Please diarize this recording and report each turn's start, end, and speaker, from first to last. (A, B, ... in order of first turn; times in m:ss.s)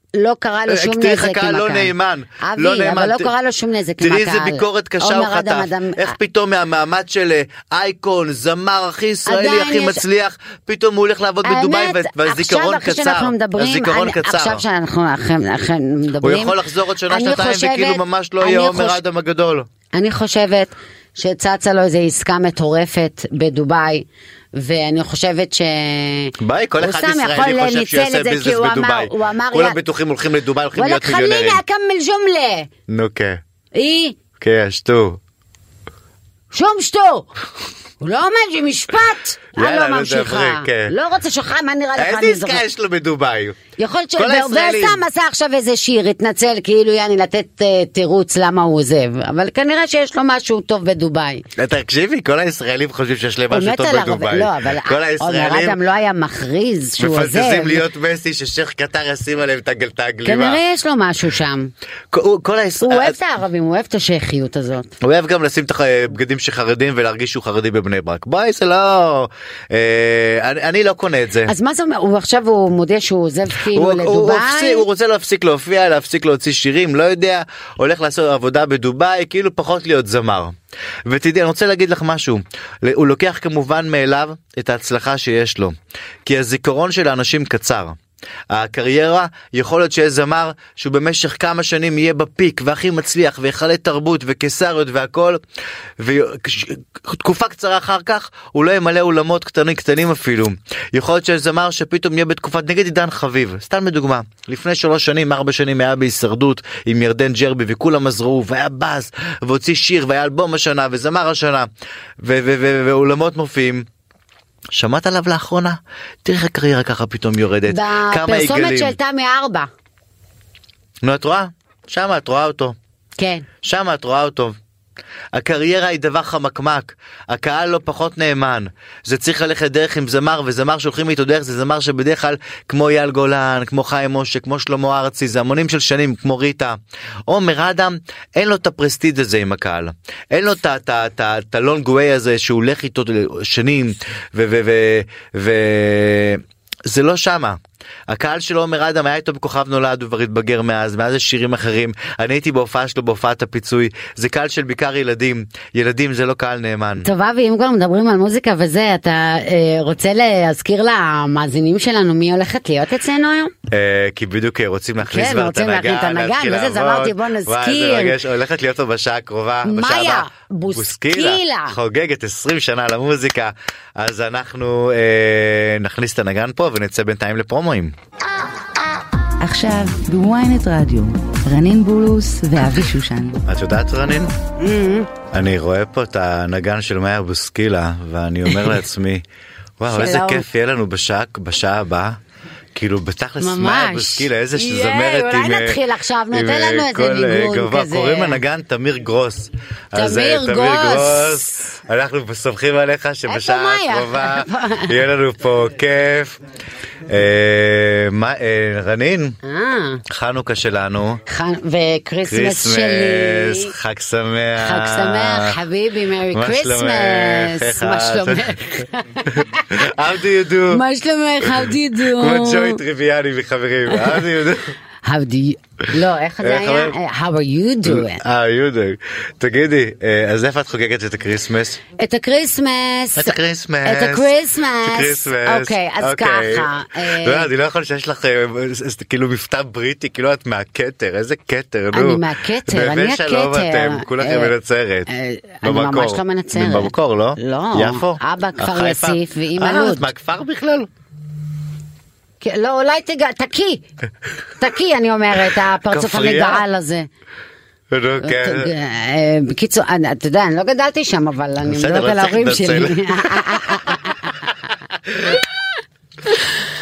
0:00.2-0:06.2 A
0:00.7-0:03.3 B
0:04.0-0:14.6 B
0:09.3-0:10.0 A
0:11.4-0:19.0 A
0:16.2-0:19.7 B
0:19.9-0:29.8 A
0:26.4-0:31.6 B
0:30.8-0:32.7 A
0:32.9-0:33.4 B
0:33.8-0:34.2 A
0:34.4-0:35.2 B
0:36.5-0:37.3 A
0:38.0-0:42.6 A
0:39.6-0:40.9 B
0:42.0-0:43.6 B
0:43.8-0:51.4 A
0:44.2-0:45.0 B
0:51.6-0:55.8 B
0:53.5-0:57.9 A
0:57.0-1:00.6 B
1:00.2-1:01.7 A
1:02.1-1:03.2 B
1:02.8-1:04.9 A
1:05.0-1:11.5 B
1:11.5-1:14.9 A
1:13.6-1:20.6 B
1:21.1-1:28.0 B
1:28.5-1:35.4 B
1:36.0-1:51.7 B
1:52.2-1:53.9 B
1:54.7-1:59.0 B
1:57.7-1:59.7 A
2:01.0-2:02.8 B
2:03.2-2:03.5 A
2:03.6-2:04.6 B
2:05.3-2:37.1 B
2:37.0-2:43.5 A
2:43.7-2:58.0 B
2:45.1-2:48.2 A
2:49.6-2:51.8 A
2:59.4-3:03.4 C
3:03.5-3:04.3 B
3:04.6-3:05.1 A
3:05.3-3:09.2 B
3:09.8-3:12.2 B
3:09.9-3:10.4 A
3:12.8-3:26.4 B
3:13.4-3:18.4 A
3:20.0-3:21.7 A
3:23.3-3:25.0 A
3:27.1-3:29.4 B
3:29.4-3:30.0 A
3:30.1-3:31.2 B
3:31.3-3:33.7 A
3:32.3-3:35.6 B
3:34.6-3:39.6 A
3:36.3-3:40.8 B
3:40.7-3:42.8 A
3:41.4-3:44.8 B
3:43.9-3:44.2 A
3:45.0-3:48.2 A
3:46.4-3:47.0 B
3:47.8-3:51.8 B
3:52.0-3:57.5 A
3:53.2-3:54.3 B
3:54.8-4:05.1 B
4:01.9-4:04.5 A
4:05.1-4:10.1 A
4:05.6-4:10.9 B
4:12.4-4:13.9 A
4:14.6-4:17.1 A
4:15.9-4:16.6 B
4:17.9-4:18.7 B
4:18.2-4:24.5 A
4:21.6-4:24.1 B
4:25.0-4:25.4 B